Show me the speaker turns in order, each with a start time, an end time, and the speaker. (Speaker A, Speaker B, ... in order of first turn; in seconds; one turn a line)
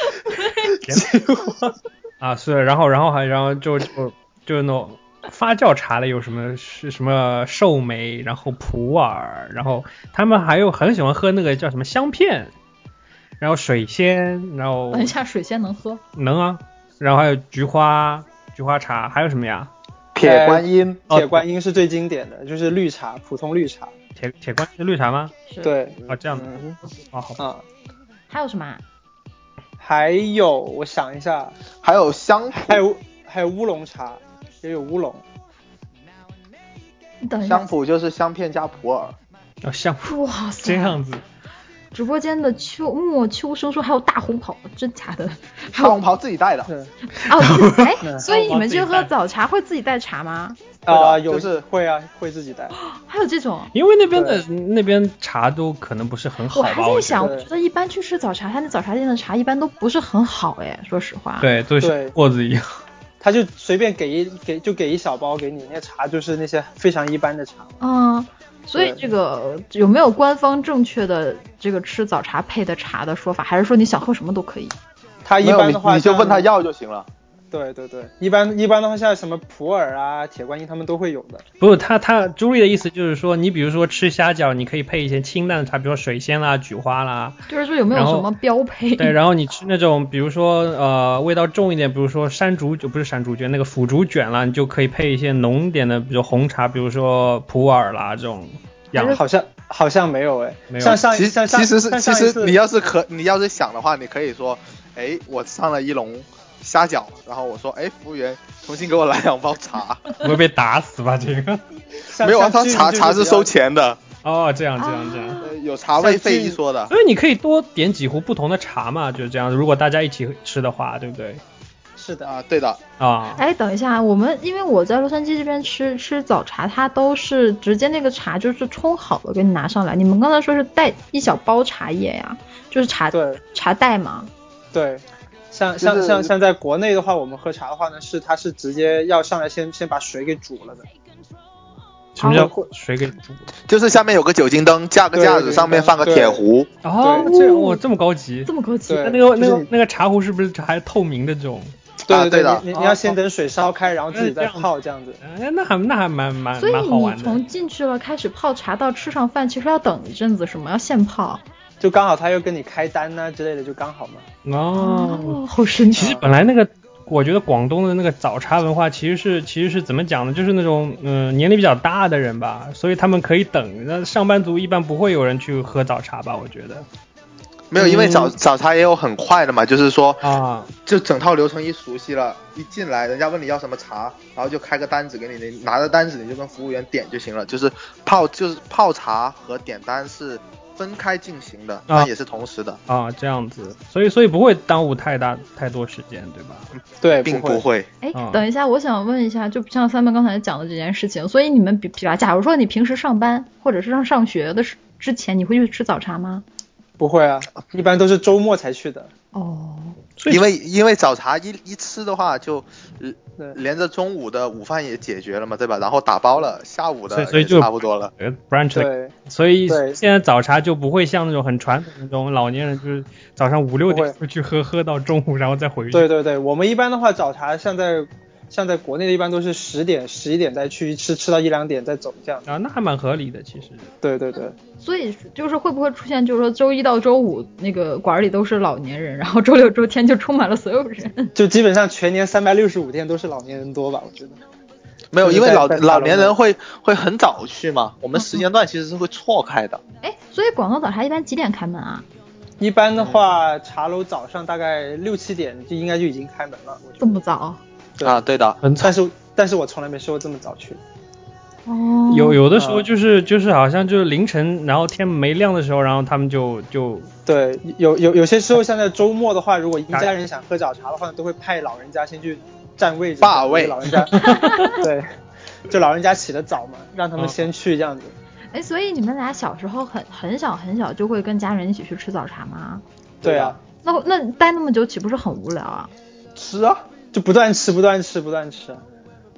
Speaker A: 0.3-0.6
Speaker B: 0.8-1.2
Speaker C: 0.9-1.5
Speaker B: 2.2-12.5
Speaker B: 13.4-15.1
Speaker A: 14.9-16.0
Speaker B: 16.1-19.7
Speaker D: 20.1-21.1
Speaker C: 20.2-23.9
Speaker B: 21.1-21.4
Speaker B: 24.2-25.3
Speaker A: 25.5-25.7
Speaker C: 25.6-26.7
Speaker B: 26.1-27.4
Speaker C: 27.4-27.6
Speaker A: 28.3-28.8
Speaker C: 29.8-31.6
Speaker D: 31.8-32.8
Speaker C: 32.6-35.2
Speaker A: 37.2-37.7
Speaker D: 37.4-39.1
Speaker B: 39.6-41.2
Speaker A: 40.0-41.0
Speaker A: 41.9-46.0
Speaker D: 45.7-46.7
Speaker A: 47.2-50.6
Speaker B: 47.5-49.1
Speaker D: 50.9-51.6
Speaker C: 50.9-52.7
Speaker A: 52.8-53.7
Speaker B: 53.7-57.3
Speaker C: 54.1-54.4
Speaker A: 56.5-61.5
Speaker C: 57.2-57.5
Speaker B: 61.4-62.8
Speaker C: 61.8-62.1
Speaker C: 63.2-67.7
Speaker A: 67.8-74.7
Speaker C: 68.8-69.0
Speaker C: 75.2-76.5
Speaker D: 75.4-77.1
Speaker C: 77.5-81.4
Speaker B: 81.6-87.4
Speaker A: 87.5-89.2
Speaker B: 87.9-88.3
Speaker B: 89.0-99.2
Speaker A: 98.9-99.2
Speaker C: 99.1-102.5
Speaker B: 100.7-101.0
Speaker D: 101.1-110.0
Speaker B: 110.2-111.6
Speaker C: 112.1-113.5
Speaker D: 112.2-114.0
Speaker B: 114.2-115.4
Speaker A: 114.8-115.5
Speaker D: 115.4-116.9
Speaker C: 116.0-116.6
Speaker B: 116.9-121.4
Speaker C: 122.0-122.3
Speaker D: 122.2-122.8
Speaker B: 123.0-123.4
Speaker A: 123.3-134.3
Speaker C: 133.1-133.4
Speaker C: 134.7-140.9
Speaker D: 135.8-136.3
Speaker B: 142.2-143.5
Speaker A: 142.2-142.5
Speaker C: 142.3-142.6
Speaker D: 143.7-146.7
Speaker C: 145.1-146.4
Speaker B: 146.8-151.7
Speaker C: 147.0-147.3
Speaker A: 147.2-147.8
Speaker A: 148.4-149.1
Speaker C: 148.9-149.7
Speaker D: 152.1-152.7
Speaker C: 152.1-155.2
Speaker B: 152.7-153.2
Speaker B: 154.1-154.7
Speaker B: 155.2-157.4
Speaker A: 156.6-161.4
Speaker C: 161.8-164.3
Speaker B: 164.4-165.4
Speaker A: 164.8-166.2
Speaker B: 165.9-176.8
Speaker D: 177.7-180.2
Speaker B: 177.8-178.3
Speaker B: 180.2-180.7
Speaker D: 180.8-192.8
Speaker B: 192.9-196.7
Speaker C: 197.0-197.6
Speaker D: 197.2-197.9
Speaker A: 198.0-206.4
Speaker B: 198.1-198.4
Speaker C: 207.0-209.1
Speaker A: 209.3-210.0
Speaker B: 210.2-210.4
Speaker D: 210.3-218.1
Speaker B: 217.1-226.1
Speaker C: 218.7-219.1
Speaker C: 219.7-220.0
Speaker C: 223.9-224.1
Speaker C: 225.9-232.4
Speaker B: 232.4-233.9
Speaker C: 234.0-234.6
Speaker A: 234.8-241.3
Speaker C: 241.3-244.4
Speaker D: 245.1-249.8
Speaker C: 245.2-246.3
Speaker A: 250.0-252.0
Speaker C: 252.6-257.1
Speaker A: 257.0-257.6
Speaker D: 258.0-258.6
Speaker B: 258.6-258.9
Speaker C: 258.8-260.8
Speaker A: 261.7-262.4
Speaker B: 262.1-267.1
Speaker C: 262.5-262.9
Speaker C: 267.2-275.1
Speaker D: 273.2-273.9
Speaker A: 274.1-274.8
Speaker B: 274.2-274.7
Speaker C: 275.7-278.1
Speaker A: 278.5-282.8
Speaker D: 283.2-283.6
Speaker C: 283.2-283.6
Speaker A: 283.8-285.9
Speaker D: 286.4-286.8
Speaker C: 287.1-288.8